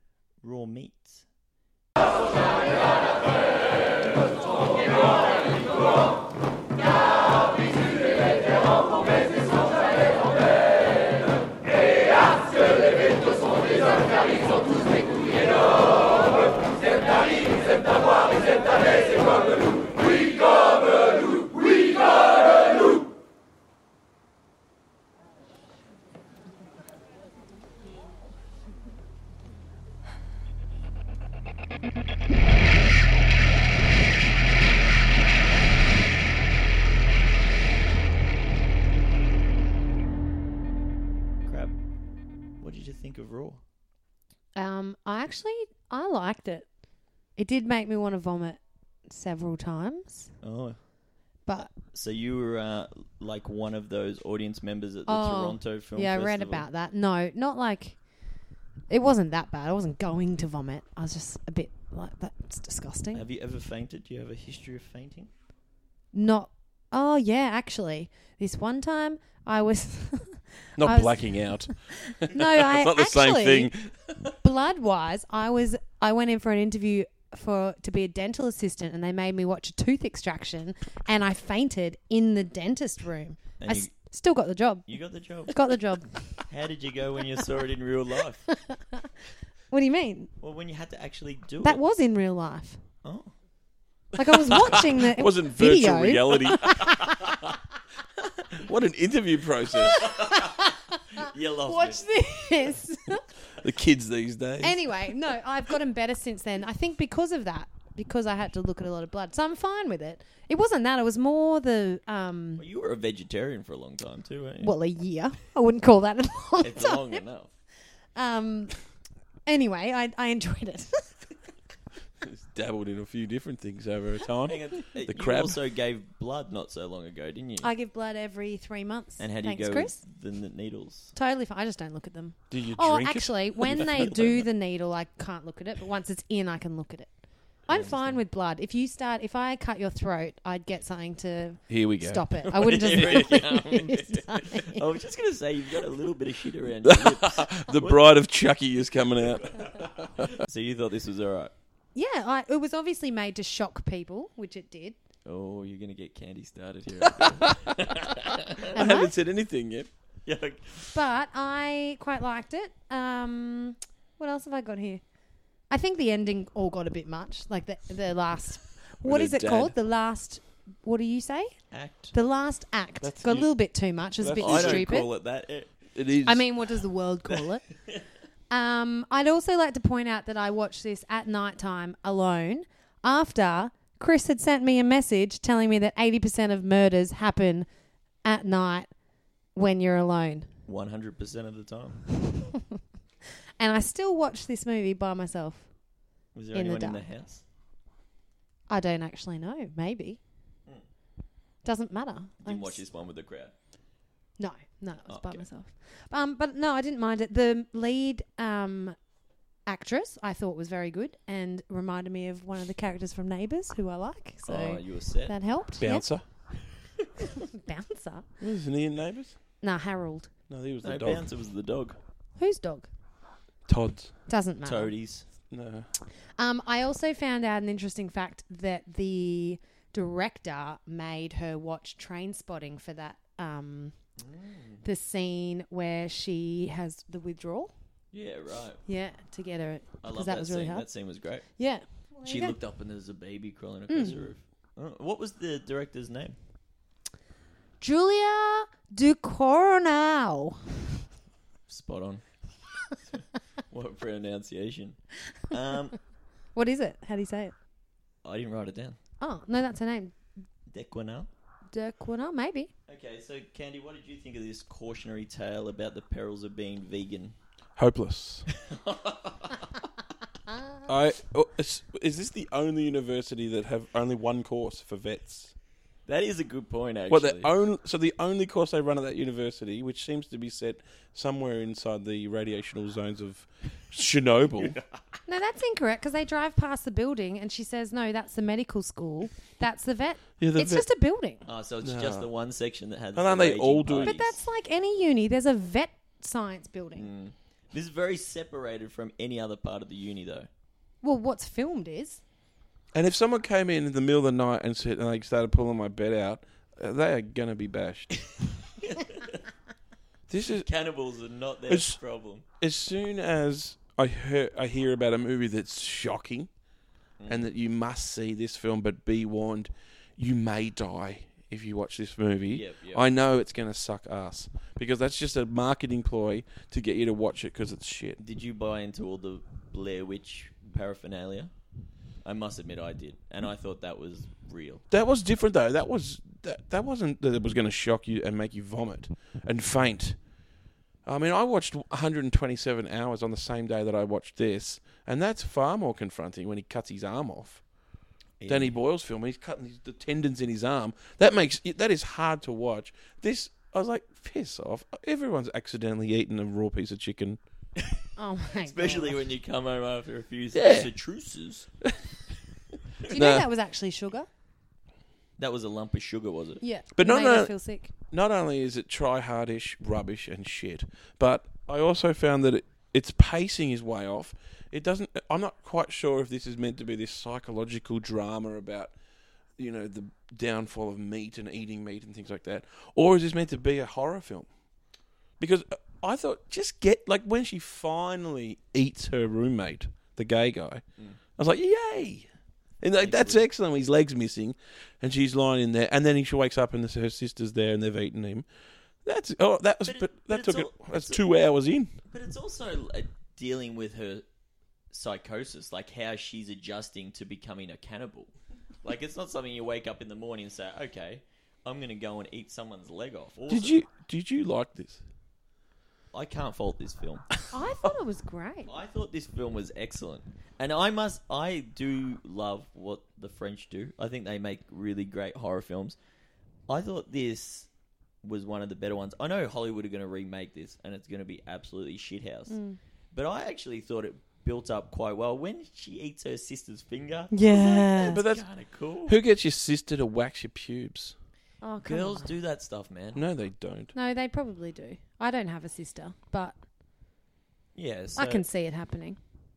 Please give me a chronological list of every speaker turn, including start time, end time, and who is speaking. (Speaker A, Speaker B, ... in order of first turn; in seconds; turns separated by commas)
Speaker A: 0.4-1.3, Speaker A: 41.5-41.8, Speaker A: 42.6-43.6, Speaker B: 44.6-46.7, Speaker B: 47.4-50.3, Speaker A: 50.4-50.8, Speaker B: 51.5-51.7, Speaker A: 51.7-56.7, Speaker B: 55.1-63.2, Speaker A: 63.1-65.3, Speaker B: 66.1-73.7, Speaker C: 70.8-74.3, Speaker B: 74.4-85.0, Speaker A: 83.6-83.9, Speaker A: 84.9-85.6, Speaker B: 85.5-86.5, Speaker A: 86.5-88.5, Speaker B: 88.5-89.1, Speaker B: 89.7-90.3, Speaker A: 90.4-91.8, Speaker B: 91.6-92.8, Speaker A: 93.0-93.3, Speaker B: 94.2-96.9, Speaker C: 94.5-96.9, Speaker C: 98.5-100.0, Speaker B: 100.0-103.2, Speaker A: 100.0-100.5, Speaker A: 101.2-102.0, Speaker C: 103.6-104.9, Speaker B: 104.6-112.6, Speaker A: 112.6-114.7, Speaker B: 114.6-117.2, Speaker A: 116.6-117.5, Speaker B: 118.2-118.8, Speaker B: 119.5-121.3, Speaker C: 122.2-125.6, Speaker A: 124.5-127.7, Speaker B: 127.6-130.0, Speaker A: 129.2-131.1, Speaker B: 131.2-144.8, Speaker C: 132.5-134.4, Speaker A: 137.7-138.2, Speaker C: 141.7-142.3, Speaker A: 142.5-148.1, Speaker C: 146.8-150.1, Speaker A: 150.3-151.5, Speaker B: 151.9-155.0, Speaker A: 155.3-158.6, Speaker C: 157.1-157.6, Speaker B: 158.7-159.1, Speaker C: 158.7-159.9, Speaker A: 160.2-160.9, Speaker B: 160.9-165.0, Speaker B: 165.7-171.6, Speaker C: 169.0-169.8, Speaker A: 171.7-172.1, Speaker B: 172.1-175.1, Speaker C: 173.0-173.5, Speaker C: 174.2-175.0, Speaker A: 174.4-175.7, Speaker C: 175.9-176.5, Speaker B: 176.2-177.7, Speaker B: 178.5-187.7, Speaker B: 188.2-188.9, Speaker B: 189.6-190.5, Speaker A: 190.7-192.1, Speaker B: 193.6-195.7, Speaker A: 196.3-197.4, Speaker B: 196.5-197.0, Speaker B: 198.7-200.2, Speaker B: 201.6-202.8, Speaker A: 202.4-203.5, Speaker B: 204.4-209.0, Speaker A: 205.1-205.5, Speaker B: 209.7-216.1, Speaker A: 214.4-215.4, Speaker C: 215.8-216.2, Speaker B: 217.4-218.3, Speaker C: 218.4-219.4, Speaker B: 219.6-220.3, Speaker C: 220.5-221.3, Speaker A: 220.8-222.0, Speaker B: 222.4-222.9, Speaker C: 223.7-224.2, Speaker B: 224.3-224.9, Speaker A: 224.6-225.3, Speaker C: 225.5-225.9, Speaker B: 226.4-233.9, Speaker A: 234.2-234.8, Speaker B: 234.8-237.7, Speaker A: 238.1-238.8, Speaker B: 238.9-240.9, Speaker A: 240.0-241.5, Speaker B: 241.6-242.6, Speaker A: 242.2-246.4, Speaker B: 243.9-244.2, Speaker B: 247.8-250.9, Speaker A: 251.7-252.2, Speaker A: 253.1-255.0, Speaker A: 255.5-256.0, Speaker B: 256.6-257.5, Speaker A: 258.2-259.0, Speaker B: 259.2-260.1, Speaker A: 260.7-261.3, Speaker B: 261.7-262.7, Speaker A: 262.9-267.4, Speaker C: 267.8-268.5, Speaker A: 268.7-269.6, Speaker C: 270.9-275.5, Speaker A: 276.1-277.5, Speaker C: 277.1-284.8, Speaker A: 284.6-284.9, Speaker B: 285.3-291.4, Speaker C: 290.4-290.9, Speaker A: 291.4-294.4, Speaker C: 291.8-292.3, Speaker C: 293.1-294.2, Speaker B: 293.9-297.1, Speaker A: 297.0-300.5, Speaker B: 301.0-302.2, Speaker C: 302.9-308.2, Speaker A: 308.8-309.4, Speaker C: 310.3-310.7, Speaker A: 310.6-312.5, Speaker C: 311.7-312.0, Speaker C: 312.6-316.5, Speaker A: 317.2-317.5, Speaker C: 317.3-328.2, Speaker A: 322.5-323.1, Speaker A: 328.2-331.6, Speaker A: 332.2-334.8, Speaker C: 334.9-340.2, Speaker C: 341.1-347.7, Speaker A: 348.4-348.8, Speaker C: 348.5-357.4, Speaker B: 358.2-359.3, Speaker A: 358.6-361.7, Speaker C: 360.5-360.9, Speaker B: 363.1-364.3, Speaker C: 363.1-363.5, Speaker A: 365.4-366.6, Speaker B: 366.6-367.9, Speaker C: 367.0-378.9, Speaker C: 379.6-384.5, Speaker C: 385.4-392.3, Speaker C: 392.8-398.5, Speaker A: 393.0-393.4, Speaker C: 399.0-401.9, Speaker A: 399.8-401.3, Speaker A: 402.1-404.2, Speaker A: 404.9-408.3, Speaker A: 408.8-413.8, Speaker C: 413.5-415.0, Speaker A: 416.1-417.3, Speaker B: 417.5-418.7, Speaker A: 418.7-426.0, Speaker A: 426.7-427.7, Speaker A: 428.2-432.6, Speaker B: 432.5-432.8, Speaker A: 433.1-439.2, Speaker B: 437.3-438.2, Speaker C: 438.1-438.4, Speaker C: 439.1-441.1, Speaker B: 441.6-442.4, Speaker A: 441.9-443.2, Speaker C: 443.1-443.9, Speaker B: 443.9-446.6, Speaker A: 447.8-448.4, Speaker B: 448.2-449.2